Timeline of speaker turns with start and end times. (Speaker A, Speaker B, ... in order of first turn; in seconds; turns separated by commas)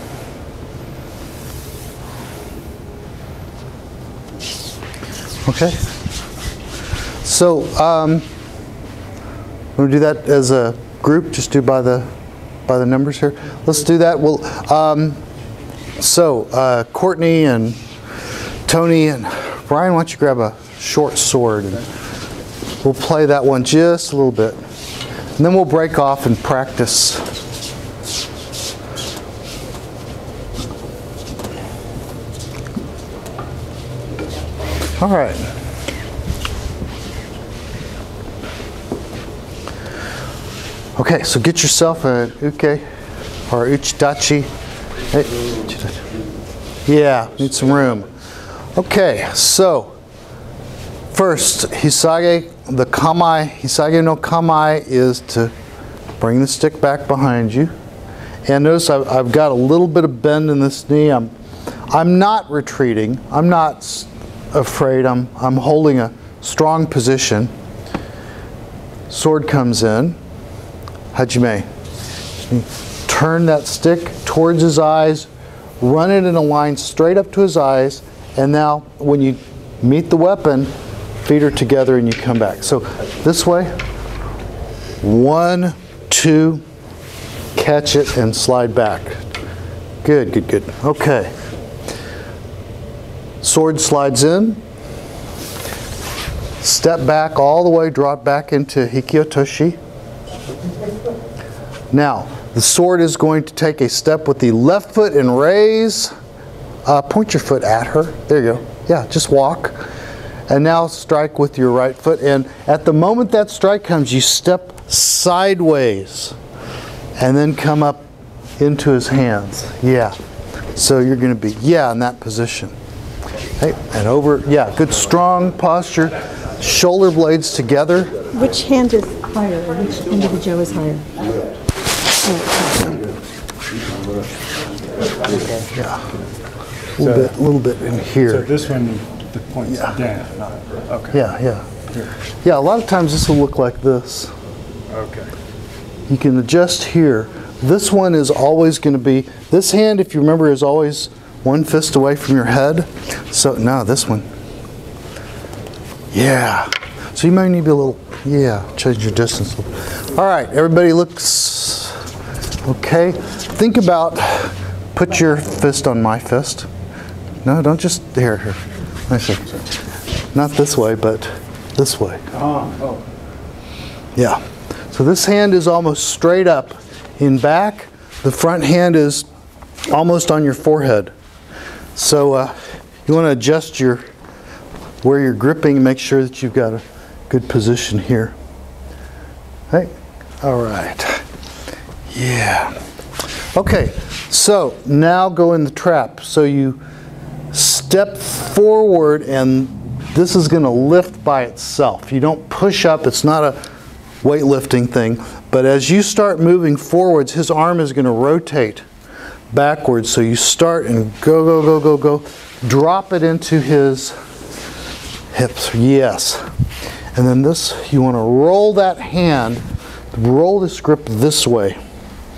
Speaker A: 5.5-5.8, Speaker A: 7.2-8.3, Speaker A: 9.8-12.1, Speaker A: 12.7-15.2, Speaker A: 16.0-17.8, Speaker A: 18.7-21.8, Speaker A: 22.8-24.6, Speaker A: 25.4-27.2, Speaker A: 35.0-35.5, Speaker A: 41.0-42.8, Speaker A: 43.5-44.5, Speaker A: 45.1-46.0, Speaker A: 46.9-48.1, Speaker A: 48.8-50.0, Speaker A: 51.1-55.5, Speaker A: 56.2-57.7, Speaker A: 58.5-61.3, Speaker A: 61.9-67.5, Speaker A: 69.1-70.2, Speaker A: 71.1-71.7, Speaker A: 72.5-75.3, Speaker A: 75.8-80.7, Speaker A: 81.2-83.8, Speaker A: 85.0-86.6, Speaker A: 87.6-89.2, Speaker A: 90.0-91.3, Speaker A: 93.4-94.6, Speaker A: 96.6-99.8, Speaker A: 101.9-106.1, Speaker A: 106.8-109.9, Speaker A: 110.5-116.4, Speaker A: 117.2-118.1, Speaker A: 118.6-120.2, Speaker A: 120.8-122.7, Speaker A: 123.6-128.2, Speaker B: 128.3-131.1, Speaker B: 132.2-133.1, Speaker A: 135.7-136.0, Speaker A: 137.0-138.5, Speaker C: 137.0-137.3, Speaker C: 138.2-141.2, Speaker A: 141.1-141.7, Speaker A: 142.4-144.3, Speaker C: 144.9-145.3, Speaker A: 146.1-154.3, Speaker A: 156.1-162.0, Speaker A: 162.6-166.7, Speaker A: 167.4-169.6, Speaker A: 170.3-172.2, Speaker C: 172.4-173.0, Speaker A: 174.2-179.3, Speaker A: 179.9-181.1, Speaker A: 182.0-184.0, Speaker A: 185.0-188.3, Speaker A: 189.7-191.2, Speaker A: 192.1-192.8, Speaker A: 193.6-196.8, Speaker A: 197.5-203.6, Speaker A: 204.2-208.8, Speaker A: 209.5-214.2, Speaker A: 215.3-216.5, Speaker A: 217.1-221.8